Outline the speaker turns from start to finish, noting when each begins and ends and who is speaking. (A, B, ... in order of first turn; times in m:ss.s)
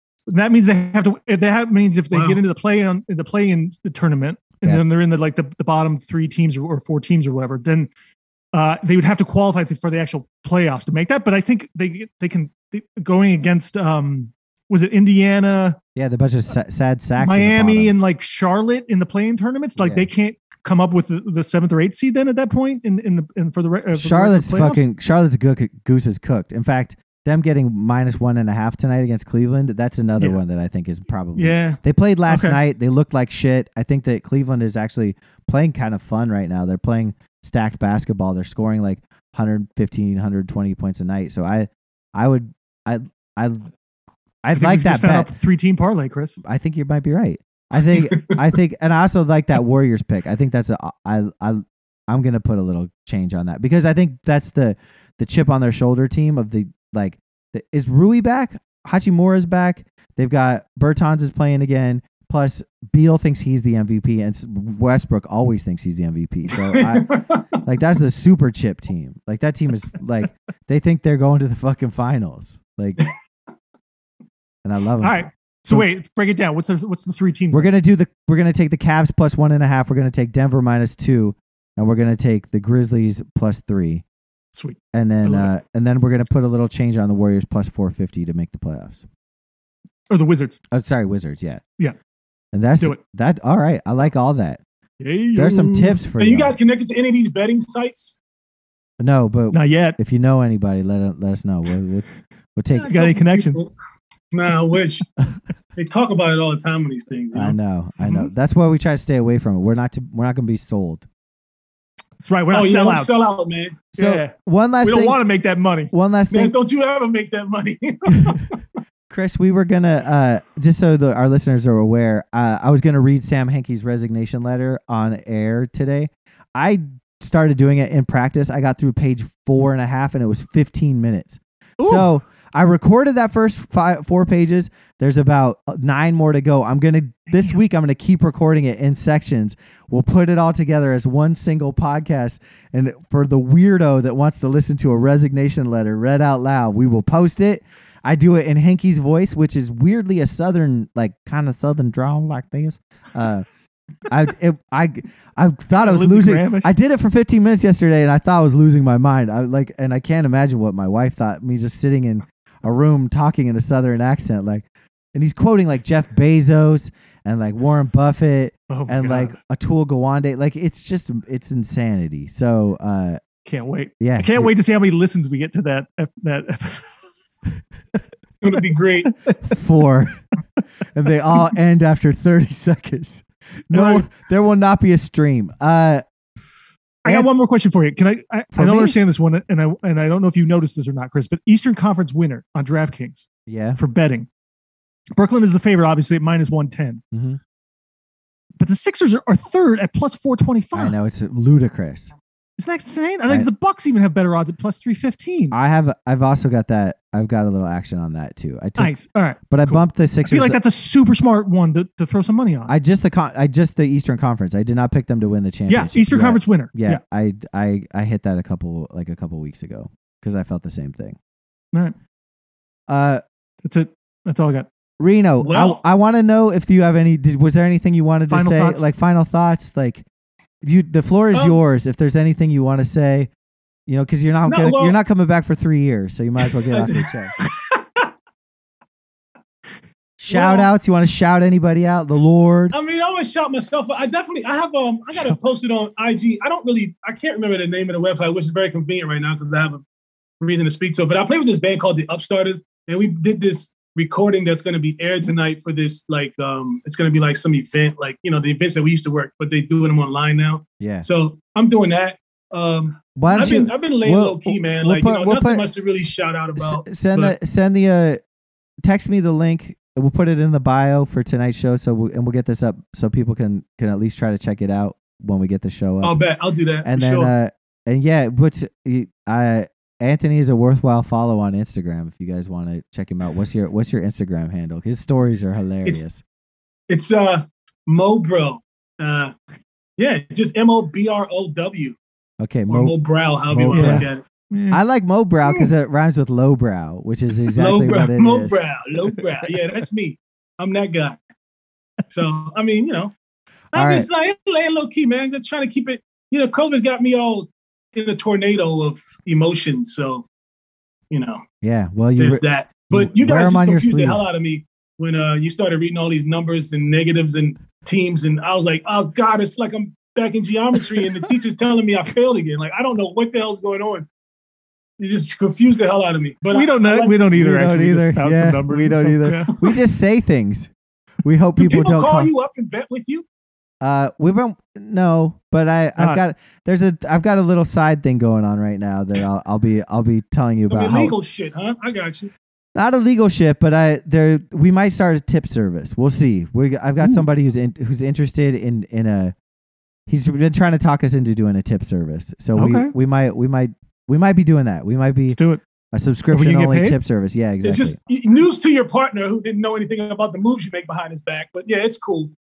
0:00.3-0:07.9 A
0:02.1-0:02.4 B
0:08.5-0:15.8 A
0:16.0-0:17.9 C
0:17.2-0:24.8 A
0:19.8-0:20.1 C
0:24.0-0:43.7 C
0:31.4-0:32.6 A
0:44.4-0:45.3 C
0:44.6-0:46.4 A
0:46.4-1:13.1 C
0:48.1-0:48.4 B
1:06.5-1:07.6 B
1:14.6-1:15.9 C
1:15.0-1:17.7 A
1:17.5-1:24.0 C
1:24.5-1:25.5 A
1:24.9-1:29.0 C
1:30.1-1:30.6 A
1:30.7-1:31.6 C
1:32.5-1:34.6 C
1:35.0-1:36.0 A
1:35.4-1:36.6 C
1:36.2-1:38.2 B
1:39.0-1:42.9 C
1:39.5-1:40.0 A
1:42.7-1:43.7 B
1:42.8-1:43.6 A
1:44.3-1:45.0 B
1:45.8-1:47.6 B
1:47.3-1:51.1 C
1:48.0-1:48.3 A
1:52.2-1:53.2 A
1:52.5-1:53.8 B
1:53.9-1:55.2 C
1:54.0-1:55.9 A
1:55.9-1:56.6 C
1:56.3-1:58.6 B
1:59.1-2:33.5 C
2:11.8-2:12.1 A
2:17.3-2:17.6 A
2:34.1-2:53.2 C
2:35.8-2:36.7 A
2:48.7-2:49.4 A
2:53.4-2:56.9 A
2:54.0-2:54.5 C
2:58.4-2:59.1 B
2:59.1-2:59.6 A
2:59.5-3:00.2 C
3:00.9-3:06.0 C
3:03.7-3:04.0 A
3:07.0-3:13.2 A
3:08.6-3:09.0 C
3:13.5-3:13.8 C
3:13.8-3:14.3 A
3:15.2-3:17.0 A
3:17.1-3:17.4 C
3:18.6-3:20.9 A
3:20.7-3:22.1 C
3:22.6-3:25.6 A
3:25.5-3:30.6 C
3:28.8-3:32.7 A
3:32.7-3:41.2 C
3:35.7-3:37.0 A
3:42.9-3:43.2 C
3:43.6-3:44.7 A
3:45.0-3:50.0 C
3:45.4-3:45.8 B
3:48.3-3:48.8 A
3:50.6-3:53.3 C
3:51.3-3:51.6 B
3:53.9-3:57.3 C
3:54.4-3:55.0 B
3:56.7-3:58.1 B
4:00.2-4:02.8 C
4:00.3-4:00.7 B
4:02.7-4:09.8 B
4:10.4-4:27.4 B
4:20.8-4:21.1 C
4:23.2-4:25.7 C
4:26.6-4:28.2 C
4:28.8-4:36.2 C
4:36.0-4:37.3 B
4:36.8-4:46.2 C
4:46.9-4:49.3 B
4:50.0-4:52.0 B
4:52.4-4:53.0 C
4:52.7-4:54.2 B
4:53.5-4:54.1 C
4:53.7-4:54.8 A
4:54.7-4:58.5 C
4:57.6-5:01.2 B
5:02.1-5:03.1 B
5:03.7-5:10.3 B
5:03.7-5:04.1 C
5:11.1-5:11.4 B
5:11.6-5:14.2 C
5:12.2-5:24.1 B
5:25.0-5:27.3 B
5:26.5-5:29.6 A
5:27.3-5:30.7 C
5:31.2-5:32.3 C
5:31.6-5:33.2 B
5:33.8-5:41.1 C
5:36.0-5:36.2 A
5:40.7-5:42.3 B
5:42.8-5:49.3 C
5:47.0-5:47.3 A
5:50.1-5:55.4 C
5:52.6-5:52.9 A
5:55.3-5:55.6 A
5:55.9-5:58.0 C
5:56.3-5:57.0 A
5:57.6-6:02.3 B